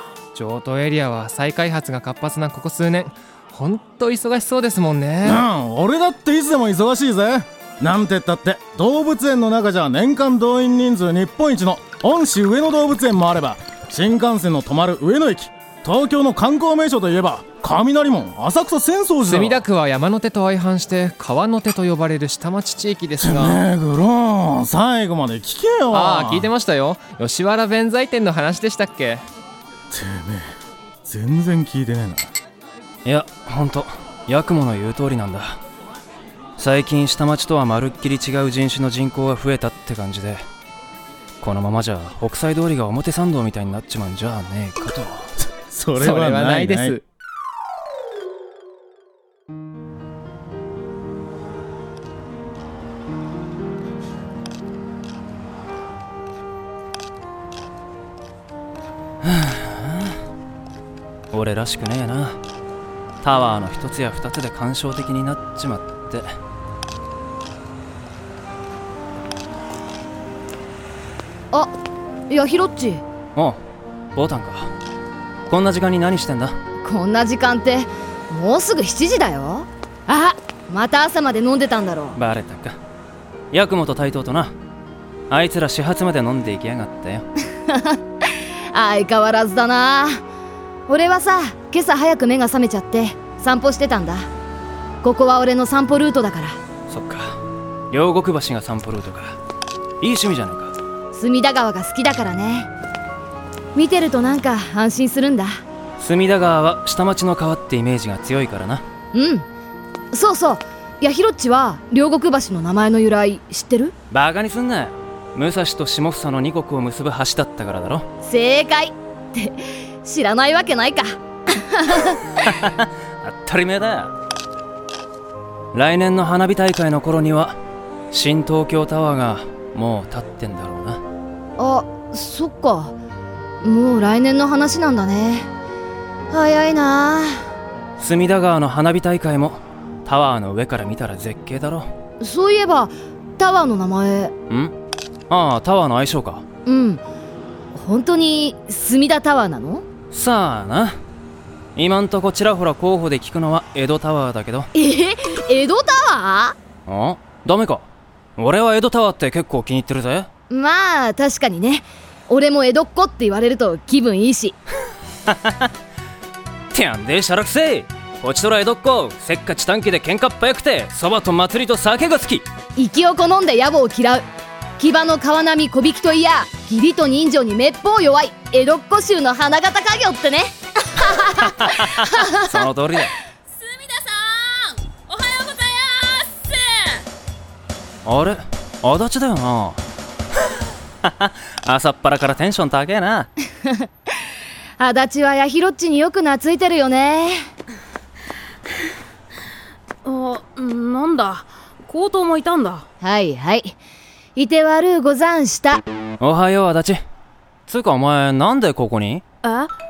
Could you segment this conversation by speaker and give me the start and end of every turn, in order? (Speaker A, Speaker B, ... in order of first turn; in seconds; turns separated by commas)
Speaker A: 0.3-5.4, Speaker B: 5.2-19.6, Speaker A: 19.2-23.6, Speaker B: 23.2-26.5, Speaker A: 25.9-29.2, Speaker B: 29.9-30.5, Speaker B: 31.1-32.3, Speaker C: 33.0-35.6, Speaker C: 36.6-40.4, Speaker C: 41.4-45.3, Speaker B: 45.4-47.0, Speaker A: 46.0-47.0, Speaker C: 59.2-60.1, Speaker C: 61.3-62.4, Speaker C: 63.2-66.3, Speaker D: 72.3-73.0, Speaker C: 74.2-74.7, Speaker C: 75.5-76.5, Speaker D: 76.8-82.2, Speaker C: 82.2-82.8, Speaker C: 83.5-84.5, Speaker C: 85.3-87.2, Speaker D: 87.7-88.0, Speaker D: 88.7-90.2, Speaker D: 90.9-94.2, Speaker D: 95.0-96.6, Speaker C: 96.9-97.3, Speaker C: 97.9-99.4, Speaker C: 100.0-100.7, Speaker D: 101.1-102.7, Speaker D: 103.8-105.6, Speaker C: 106.0-108.8, Speaker D: 109.1-109.5, Speaker D: 110.1-113.9, Speaker C: 114.1-118.1, Speaker D: 118.2-122.2, Speaker C: 122.5-124.1, Speaker C: 125.7-127.5, Speaker C: 128.1-131.0, Speaker D: 131.6-132.9, Speaker D: 133.6-135.5, Speaker D: 136.3-137.4, Speaker C: 138.0-141.9, Speaker D: 142.2-144.3, Speaker C: 145.3-146.4, Speaker D: 146.7-147.0, Speaker D: 147.7-149.8, Speaker C: 150.1-151.0, Speaker C: 151.8-154.7, Speaker D: 154.7-156.6, Speaker C: 156.9-157.9, Speaker C: 158.4-160.3, Speaker D: 160.5-164.6, Speaker C: 165.3-165.7, Speaker C: 166.7-172.4, Speaker D: 172.8-174.2, Speaker D: 174.8-182.3, Speaker C: 181.5-183.1, Speaker E: 183.6-187.0, Speaker C: 188.1-189.8, Speaker C: 191.0-193.3, Speaker D: 194.8-197.4, Speaker E: 200.0-202.8, Speaker D: 203.0-203.8, Speaker D: 204.4-205.8, Speaker C: 206.2-207.0, Speaker C: 207.7-209.2, Speaker E: 209.4-209.7